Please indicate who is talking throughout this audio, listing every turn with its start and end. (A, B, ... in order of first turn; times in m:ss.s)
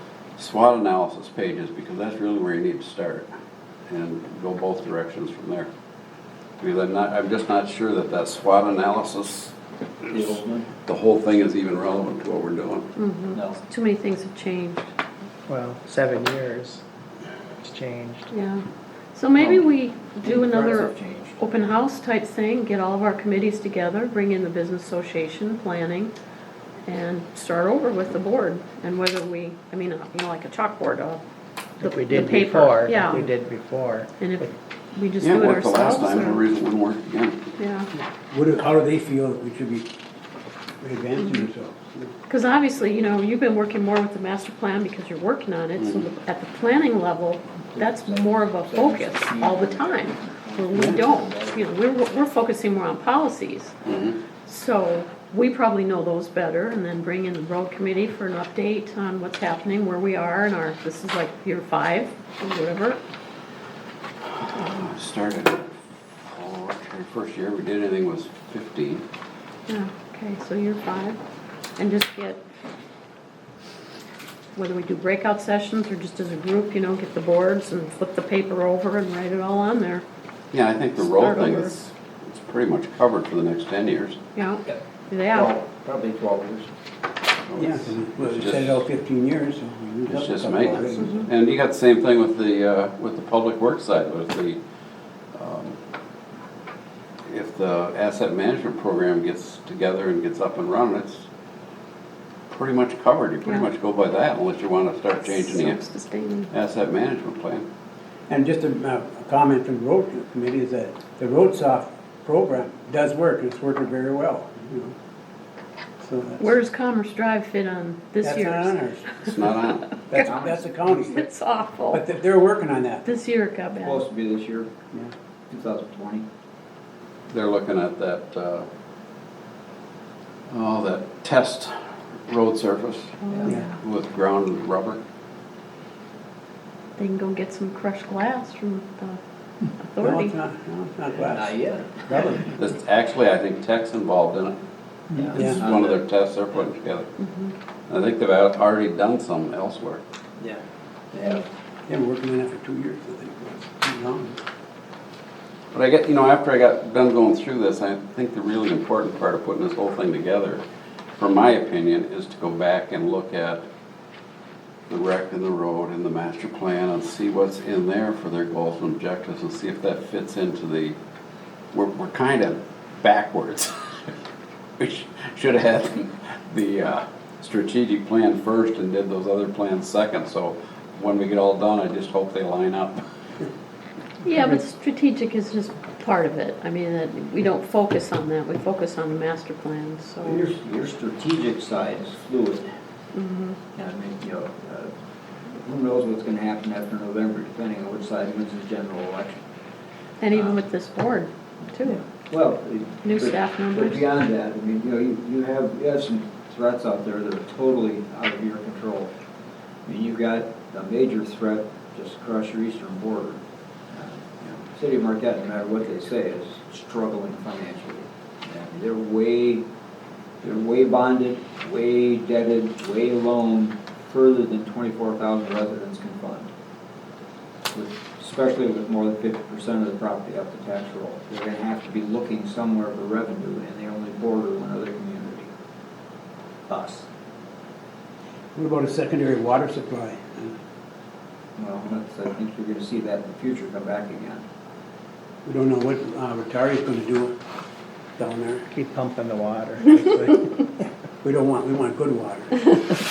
0:00.4-0:03.3 A
0:03.9-0:05.7 A
0:06.6-0:09.5 A
0:10.1-0:10.7 B
0:10.8-0:12.9 A
0:13.0-0:14.9 C
0:13.3-0:13.6 B
0:15.5-0:16.8 D
0:17.6-0:18.3 D
0:18.3-0:26.1 C
0:19.4-0:19.7 B
0:20.2-0:21.4 B
0:26.8-0:31.2 C
0:31.8-0:34.4 D
0:31.8-0:33.3 C
0:34.2-0:36.4 C
0:35.2-0:37.4 A
0:37.6-0:37.9 C
0:37.9-0:39.9 E
0:40.8-0:42.1 E
0:41.2-0:41.4 C
0:42.3-0:53.7 C
0:47.7-0:51.7 B
0:50.7-0:51.0 E
0:53.8-0:54.2 A
0:54.4-1:03.0 C
1:04.5-1:09.0 A
1:09.7-1:11.2 C
1:11.8-1:12.4 C
1:14.6-1:20.0 C
1:20.5-1:24.2 A
1:21.0-1:21.7 C
1:24.4-1:25.5 C
1:25.3-1:26.7 B
1:27.5-1:28.8 A
1:27.5-1:31.2 E
1:30.1-1:34.6 A
1:31.0-1:31.2 C
1:35.3-1:35.8 A
1:37.3-1:41.3 A
1:42.5-1:45.8 A
1:45.2-1:46.5 C
1:46.5-1:47.6 A
1:48.3-1:54.9 E
1:56.0-1:56.4 E
1:56.4-2:00.3 C
1:58.2-1:59.1 E
1:59.2-1:59.9 A
2:00.1-2:01.2 E
2:00.2-2:00.7 B
2:00.9-2:02.0 C
2:01.9-2:03.0 E
2:03.0-2:04.0 C
2:03.8-2:04.7 B
2:05.5-2:06.3 B
2:07.3-2:08.7 A
2:10.5-2:11.7 A
2:12.3-2:15.0 A
2:13.2-2:13.7 C
2:17.0-2:19.2 C
2:19.8-2:20.3 C
2:20.0-2:22.6 E
2:21.2-2:22.0 B
2:22.5-2:24.6 A
2:25.1-2:26.0 B
2:25.3-2:27.1 A
2:25.3-2:25.6 E
2:27.2-2:27.5 C
2:27.9-2:30.0 A
2:31.1-2:31.4 B
2:31.9-2:34.4 E
2:35.7-2:40.6 A
2:41.2-2:43.6 A
2:44.9-2:51.0 A
2:51.7-2:53.8 A
2:54.8-3:03.0 A
3:04.2-3:10.5 C
3:10.2-3:12.7 B
3:13.1-3:13.6 C
3:13.7-3:14.9 B
3:15.5-3:19.4 B
3:20.2-3:22.0 C
3:20.3-3:20.6 B
3:21.8-3:29.1 B
3:23.0-3:24.0 C
3:29.8-3:33.4 B
3:33.9-3:39.6 B
3:40.4-3:46.5 B
3:47.7-3:55.5 B
3:56.7-3:57.1 B
3:58.5-4:00.5 E
4:01.6-4:04.4 B
4:05.4-4:07.3 E
4:08.2-4:08.6 E
4:08.7-4:10.7 D
4:11.2-4:12.7 E